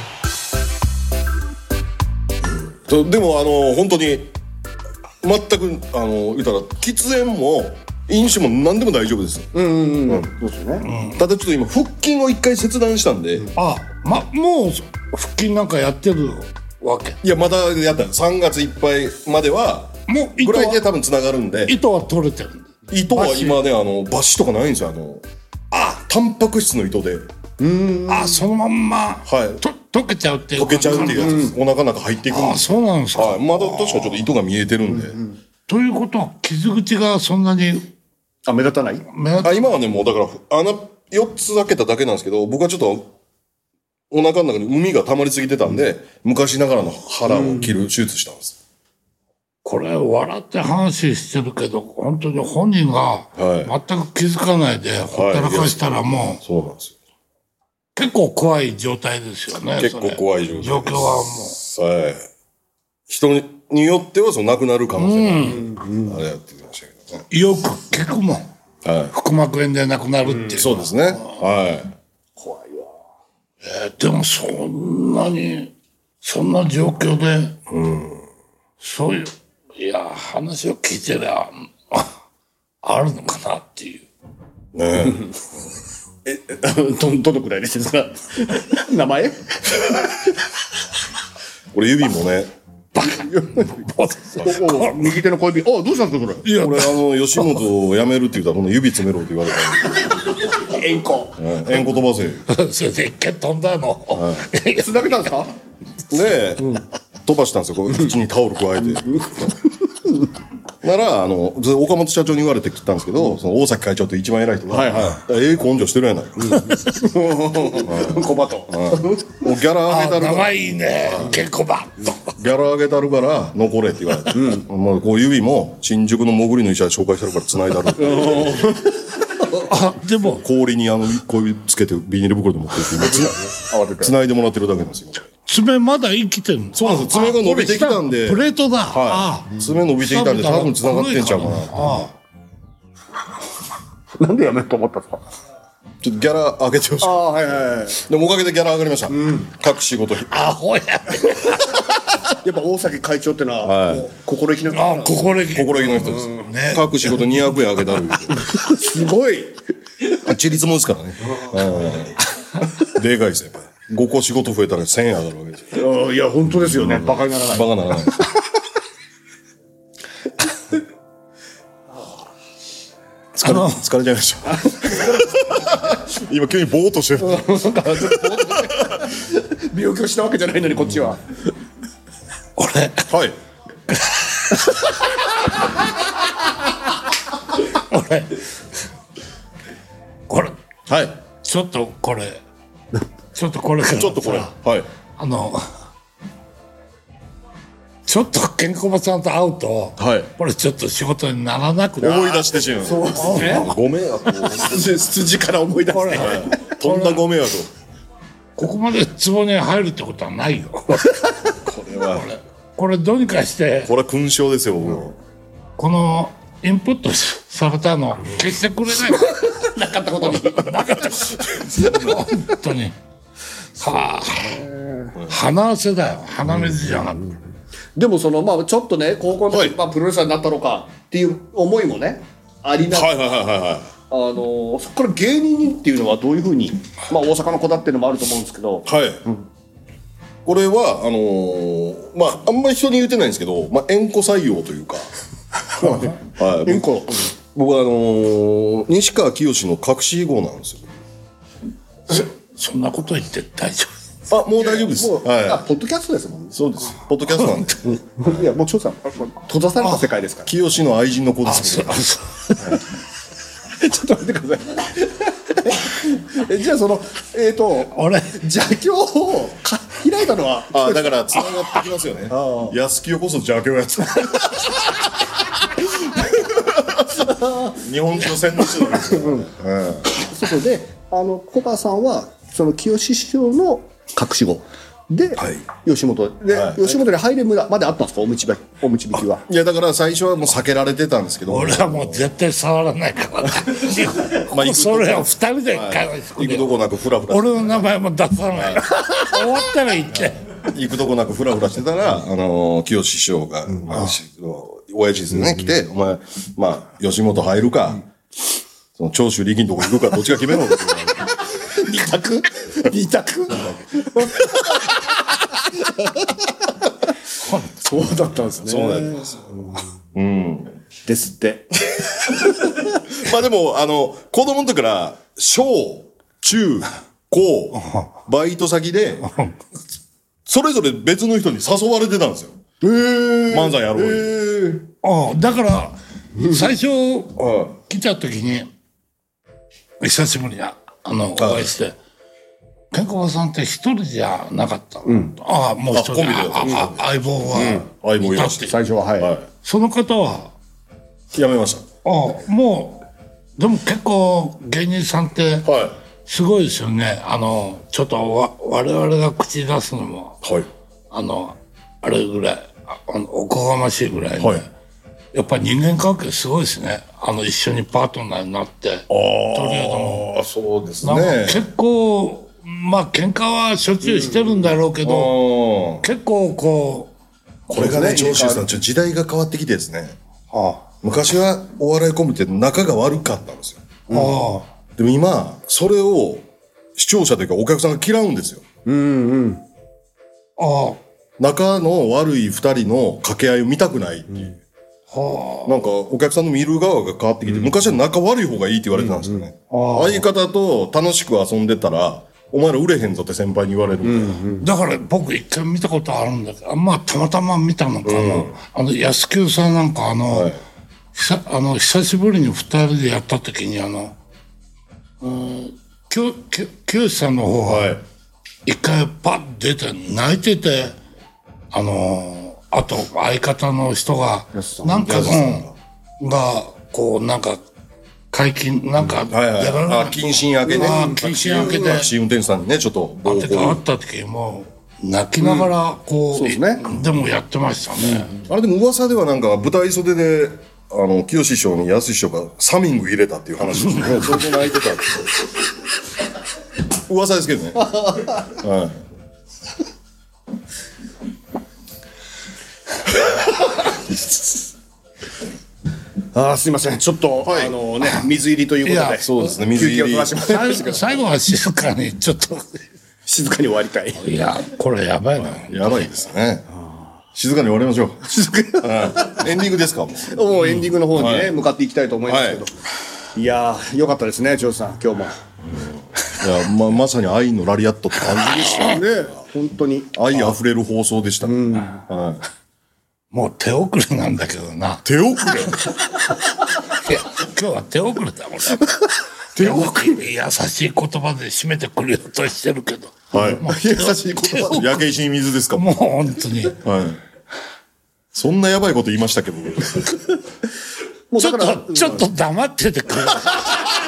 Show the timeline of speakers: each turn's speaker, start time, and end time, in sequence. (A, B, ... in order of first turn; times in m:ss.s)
0:02.6-0:04.3 A
0:05.2-0:09.5 A
0:09.5-0:10.9 B
0:10.8-0:11.2 C
0:11.1-0:13.5 A
0:13.5-0:17.2 C
0:17.2-0:21.8 A
0:20.1-0:20.8 C
0:21.7-0:23.6 C
0:22.9-0:27.3 A
0:27.6-0:28.4 B
0:28.1-0:31.5 C
0:29.3-0:29.6 A
0:30.6-0:35.2 A
0:30.8-0:31.5 B
0:32.3-0:34.3 C
0:35.7-0:37.9 C
0:38.5-0:39.0 B
0:39.1-0:39.7 C
0:39.4-0:43.1 A
0:44.1-0:48.6 A
0:47.3-0:47.8 B
0:49.6-0:56.4 C
0:53.4-0:53.7 A
0:55.1-0:55.9 A
0:56.4-0:57.0 A
0:58.0-1:01.6 C
0:59.8-1:02.2 A
1:03.1-1:07.2 A
1:05.0-1:05.7 C
1:05.6-1:06.2 B
1:07.3-1:08.5 C
1:08.8-1:09.1 A
1:09.1-1:10.8 C
1:10.5-1:11.9 A
1:12.4-1:12.9 B
1:13.6-1:17.6 C
1:17.7-1:18.2 A
1:18.8-1:22.1 C
1:22.8-1:24.1 C
1:24.7-1:25.2 A
1:26.2-1:30.0 B
1:31.7-1:32.5 A
1:33.0-1:35.1 C
1:33.0-1:33.8 B
1:34.4-1:36.5 B
1:36.4-1:37.6 C
1:36.5-1:40.1 A
1:40.4-1:41.4 B
1:41.4-1:42.4 A
1:42.5-1:45.5 C
1:44.2-1:44.5 A
1:44.8-1:45.5 B
1:46.1-1:49.5 A
1:48.9-1:50.1 B
1:50.8-1:56.6 A
1:54.7-1:55.2 B
1:56.5-1:59.4 B
1:56.5-1:56.9 C
1:57.8-2:01.4 A
1:59.9-2:02.2 C
2:02.4-2:08.6 A
2:04.3-2:04.7 B
2:08.0-2:09.5 B
2:09.5-2:10.4 C
2:10.4-2:13.4 A
2:12.8-2:14.1 B
2:14.0-2:15.2 A
2:15.5-2:22.1 C
2:16.7-2:22.1 A
2:24.2-2:25.2 B
2:26.0-2:27.3 A
2:27.0-2:28.0 B
2:27.9-2:30.3 A
2:29.1-2:29.4 B
2:30.3-2:31.8 C
2:32.4-2:36.3 B
2:33.6-2:34.1 A
2:34.7-2:37.5 C
2:35.5-2:38.4 A
2:38.3-2:39.6 B
2:40.1-2:42.2 A
2:41.4-2:42.0 B
2:42.8-2:45.8 A
2:45.7-2:48.2 B
2:46.8-2:48.3 A
2:53.4-2:59.0 A
2:53.4-2:53.8 C
2:54.6-2:55.0 B
2:57.2-3:01.2 B
3:02.6-3:03.1 C
3:03.1-3:03.4 A
3:03.9-3:04.9 C
3:07.6-3:08.4 C
3:10.3-3:10.5 C
3:10.9-3:11.2 A
3:11.4-3:12.4 C
3:13.3-3:14.5 C
3:14.0-3:14.9 A
3:15.2-3:15.6 C
3:18.1-3:22.4 C
3:20.0-3:20.3 A
3:22.0-3:24.9 A
3:22.1-3:23.7 B
3:23.2-3:23.7 C
3:24.4-3:26.7 B
3:25.9-3:27.2 C
3:26.1-3:27.7 A
3:28.6-3:31.2 C
3:31.6-3:32.3 A
3:32.2-3:33.9 C
3:33.9-3:35.2 A
3:35.8-3:39.3 C
3:39.0-3:40.8 B
3:40.2-3:43.0 C
3:43.8-3:44.6 C
3:43.8-3:45.2 B
3:45.3-3:47.3 C
3:48.0-3:53.2 B
3:49.5-3:49.8 A
3:52.9-3:53.9 A
3:54.1-3:58.9 B
3:58.9-3:59.2 A
4:00.4-4:05.1 A
4:05.8-4:06.8 A
4:05.8-4:07.2 B
4:07.6-4:10.9 A
4:12.1-4:13.9 C
4:14.3-4:15.6 A
4:14.6-4:16.6 B
4:16.5-4:17.8 A
4:17.9-4:20.5 B
4:20.5-4:22.0 A
4:21.4-4:22.8 C
4:23.8-4:31.1 B
4:27.9-4:28.4 C
4:30.7-4:35.0 A
4:32.3-4:32.8 B
4:36.1-4:40.1 A
4:37.2-4:37.7 B
4:38.7-4:39.5 B
4:40.1-4:49.5 B
4:45.4-4:45.7 A
4:46.5-4:47.0 A
4:49.4-4:52.3 A
4:51.5-4:56.8 C
4:54.3-4:57.9 A
4:57.3-5:00.4 C
4:58.5-4:58.9 A
5:00.1-5:08.1 A
5:09.0-5:11.3 A
5:11.6-5:16.4 B
5:17.4-5:17.8 C
5:17.8-5:19.4 B
5:18.6-5:19.4 A
5:20.2-5:20.8 A
5:21.1-5:21.7 B
5:21.9-5:29.3 A
5:27.8-5:28.1 C
5:29.2-5:29.6 C
5:30.5-5:32.6 A
5:32.8-5:34.8 B
5:33.5-5:34.4 A
5:35.0-5:38.7 C
5:36.4-5:36.7 B
5:37.4-5:37.7 A
5:40.0-5:42.0 C
5:41.4-5:41.7 A
5:42.9-5:48.8 C
5:45.1-5:45.4 B
5:45.9-5:49.5 A
5:46.6-5:46.9 B
5:47.5-5:47.8 B
5:48.6-5:49.3 B
5:49.6-5:50.5 C
5:51.3-5:51.8 A
5:52.0-5:53.0 C
5:53.6-5:55.7 C
5:55.6-5:56.0 A
5:56.2-6:00.4 C
6:00.4-6:00.7 A
6:01.1-6:04.7 C
6:04.4-6:04.6 A
6:05.3-6:10.3 C
6:09.1-6:11.7 A
6:11.0-6:15.5 C
6:14.0-6:14.7 B
6:15.0-6:16.1 A
6:16.0-6:17.1 C
6:17.7-6:20.2 A
6:17.7-6:18.7 B
6:20.5-6:20.8 C
6:21.0-6:23.8 A
6:24.1-6:24.3 B
6:24.1-6:24.7 C
6:25.0-6:28.6 A
6:28.8-6:29.6 B
6:30.6-6:31.0 C
6:31.4-6:34.6 A
6:35.1-6:35.8 C
6:35.7-6:44.4 A
6:39.0-6:39.4 B
6:39.7-6:40.3 C
6:44.0-6:44.7 B
6:44.6-6:50.5 C
6:48.0-6:48.6 A
6:50.3-6:50.6 A
6:51.1-6:54.2 C
6:55.2-6:57.9 C
6:57.6-6:58.0 A
6:58.7-7:01.0 C
7:01.7-7:05.7 C
7:04.5-7:05.3 B
7:05.0-7:05.7 A
7:06.2-7:07.6 C
7:08.3-7:12.1 C
7:09.3-7:13.8 A
7:10.7-7:12.0 B
7:13.2-7:18.3 C
7:15.4-7:15.7 B
7:16.3-7:16.9 B
7:18.0-7:18.4 B
7:18.5-7:25.2 A
7:23.9-7:24.3 C
7:27.1-7:27.9 A
7:27.9-7:28.4 B
7:28.5-7:29.0 A
7:36.3-7:41.2 B
7:37.4-7:37.8 A
7:38.8-7:39.2 C
7:39.2-7:40.4 A
7:40.4-7:42.8 C
7:43.3-7:44.3 B
7:44.2-7:46.1 C
7:45.4-7:46.7 A
7:47.4-7:48.2 A
7:48.3-7:49.5 B
7:48.8-7:50.4 A
7:50.3-7:52.7 B
7:51.1-7:51.6 A
7:52.3-7:52.6 A
7:53.4-7:55.4 B
7:55.7-7:59.3 A
7:58.3-7:59.0 C
7:58.7-8:00.1 B
8:00.1-8:02.4 A
8:01.4-8:02.0 B
8:03.3-8:05.1 C
8:05.0-8:05.9 A
8:06.9-8:08.9 C
8:09.6-8:14.9 C
8:09.6-8:09.9 A
8:09.6-8:10.1 B
8:13.3-8:13.6 A
8:13.4-8:15.0 B
8:14.5-8:15.9 A
8:15.7-8:16.8 C
8:16.8-8:17.2 A
8:18.3-8:20.2 A
8:21.3-8:22.2 B
8:21.4-8:23.9 C